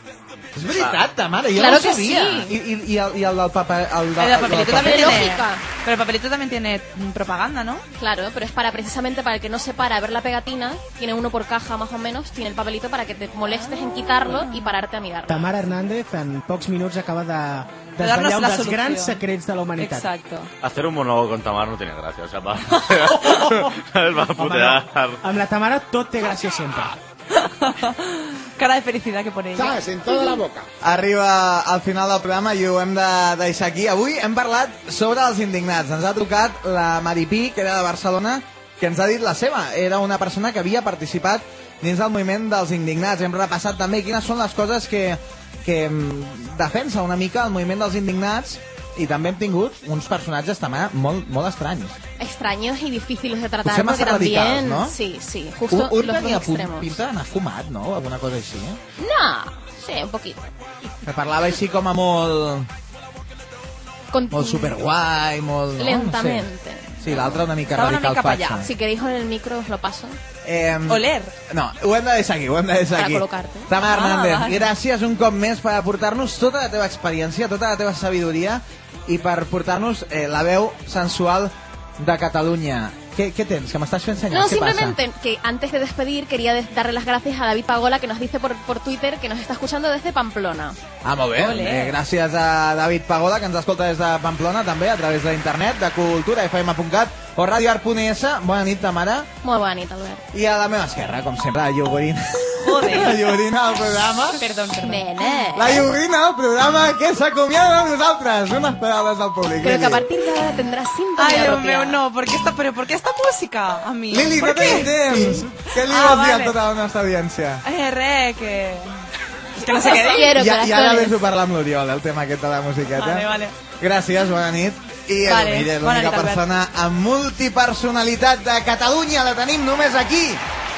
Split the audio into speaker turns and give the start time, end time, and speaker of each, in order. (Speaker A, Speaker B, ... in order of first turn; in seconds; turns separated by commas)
Speaker A: 0.5-5.3, Speaker B: 1.5-2.5, Speaker C: 4.2-7.8, Speaker B: 4.8-5.6, Speaker B: 8.0-15.5, Speaker C: 14.2-14.8, Speaker D: 15.3-20.1, Speaker C: 18.0-19.2, Speaker C: 19.8-20.5, Speaker E: 20.6-25.2, Speaker D: 23.0-23.8, Speaker D: 24.3-26.9, Speaker C: 27.3-30.4, Speaker E: 29.6-30.6, Speaker A: 30.8-52.0, Speaker B: 52.2-57.0, Speaker A: 53.6-55.0, Speaker A: 55.7-58.8, Speaker B: 59.0-60.5, Speaker A: 61.0-62.7, Speaker B: 64.1-64.7, Speaker A: 64.3-66.5, Speaker B: 65.8-67.4, Speaker A: 67.0-68.7, Speaker C: 67.7-68.7, Speaker B: 68.6-70.2, Speaker A: 70.4-85.0, Speaker C: 70.9-71.3, Speaker B: 72.9-73.7, Speaker C: 73.9-74.7, Speaker B: 84.3-90.8, Speaker A: 91.0-99.3, Speaker C: 91.4-92.0, Speaker B: 99.4-100.2, Speaker A: 100.3-104.4, Speaker C: 102.6-103.3, Speaker C: 104.4-105.4, Speaker B: 104.8-105.9, Speaker A: 105.5-110.0, Speaker B: 109.6-112.0, Speaker C: 111.2-116.5, Speaker A: 114.1-117.6, Speaker C: 117.6-119.0, Speaker C: 119.6-120.3, Speaker A: 119.6-130.4, Speaker B: 119.6-121.2, Speaker C: 123.0-123.5, Speaker C: 125.2-126.4